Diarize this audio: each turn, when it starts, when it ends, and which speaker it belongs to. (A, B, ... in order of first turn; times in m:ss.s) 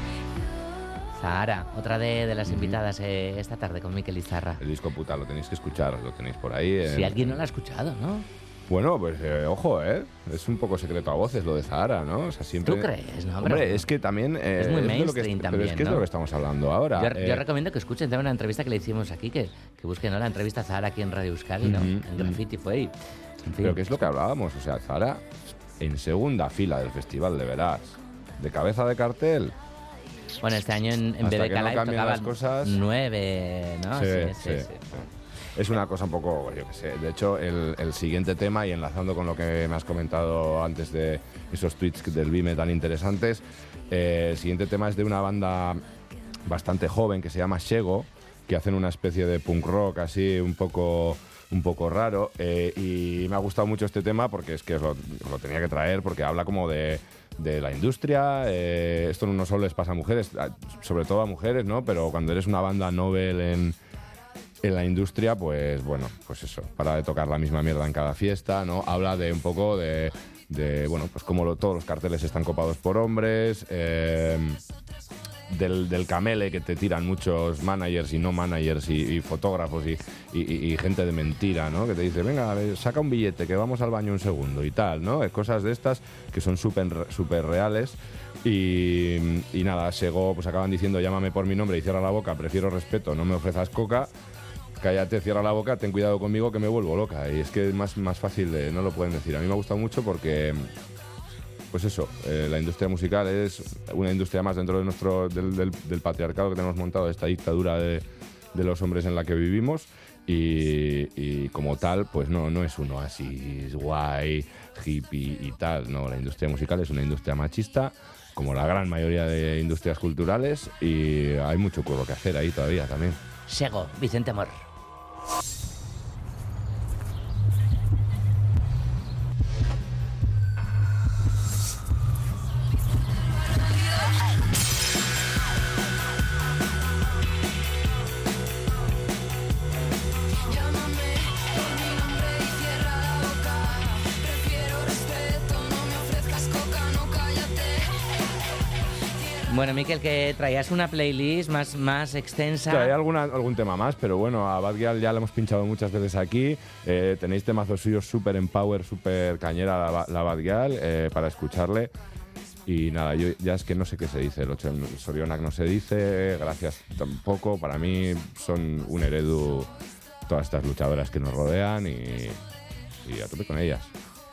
0:01.2-0:04.6 A
0:02.5-0:02.8 B
0:04.6-0:07.4 B
0:06.9-0:08.2 A
0:08.7-0:12.9 B
0:12.6-0:13.9 A
0:13.4-0:17.4 B
0:14.6-0:16.0 A
0:17.0-0:22.9 A
0:21.6-0:22.4 B
0:23.5-0:23.8 A
0:23.6-0:29.5 B
0:30.4-0:34.8 A
0:31.2-0:32.8 B
0:33.9-0:45.8 B
0:46.4-1:03.7 B
1:04.6-1:14.6 B
1:15.5-1:34.1 B
1:34.8-1:40.7 B
1:41.7-2:03.2 B
2:03.5-2:04.6 A
2:29.5-2:32.9 A
2:32.7-2:41.9 B
2:42.7-2:49.7 B
2:50.3-2:52.4 B
2:53.0-2:53.9 B